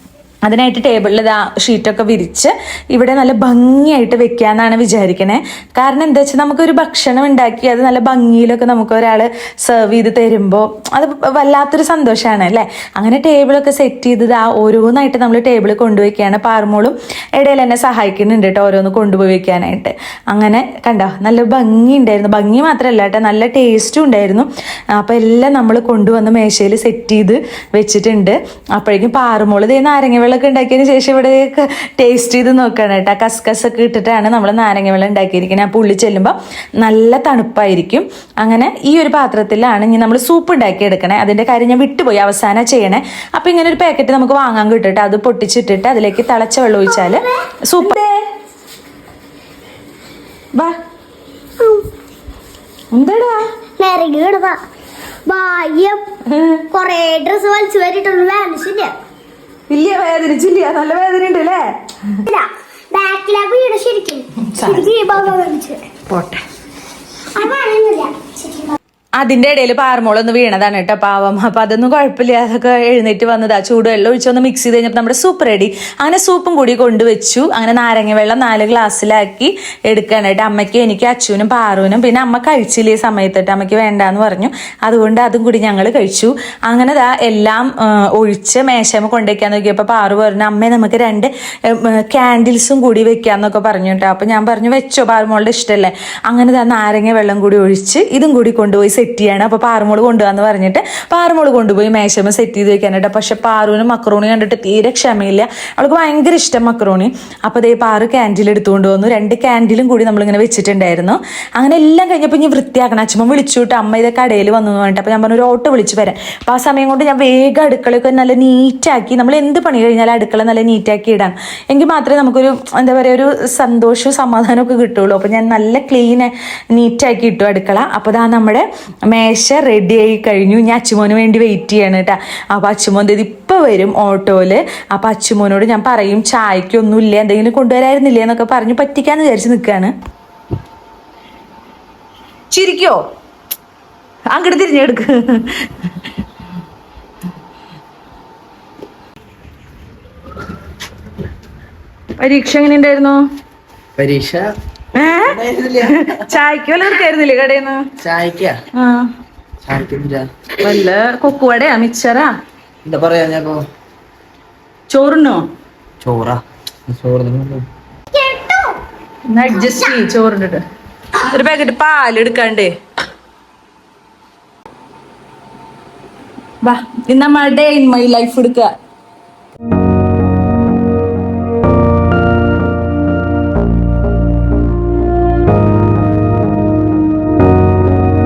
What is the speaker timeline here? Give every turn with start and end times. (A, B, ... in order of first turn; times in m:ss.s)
0:00.4-0:48.1 A
0:46.9-0:47.4 B
0:51.6-0:51.9 B
0:52.9-0:53.4 A
0:53.8-0:54.6 B
0:55.3-0:56.0 B
0:56.2-0:56.6 A
0:56.7-0:58.9 B
0:59.7-1:02.2 A
1:02.2-1:05.8 B
1:04.4-1:04.9 A
1:06.0-1:06.4 A
1:07.3-1:08.8 B
1:09.2-2:19.9 A
2:22.5-2:23.0 A
2:24.3-2:25.9 A
2:32.2-2:33.2 A
2:34.0-2:34.5 C
2:34.9-2:37.8 A
2:35.3-2:35.9 C
2:38.0-2:38.6 C
2:38.7-2:39.1 A
2:39.6-2:40.3 C
2:40.6-2:42.3 A
2:42.8-2:43.6 C
2:44.9-2:45.4 A
2:46.0-2:47.6 C
2:48.1-2:48.8 B
2:49.3-2:50.6 A
2:49.5-2:50.0 B
2:51.2-2:52.7 A
2:56.6-2:58.7 A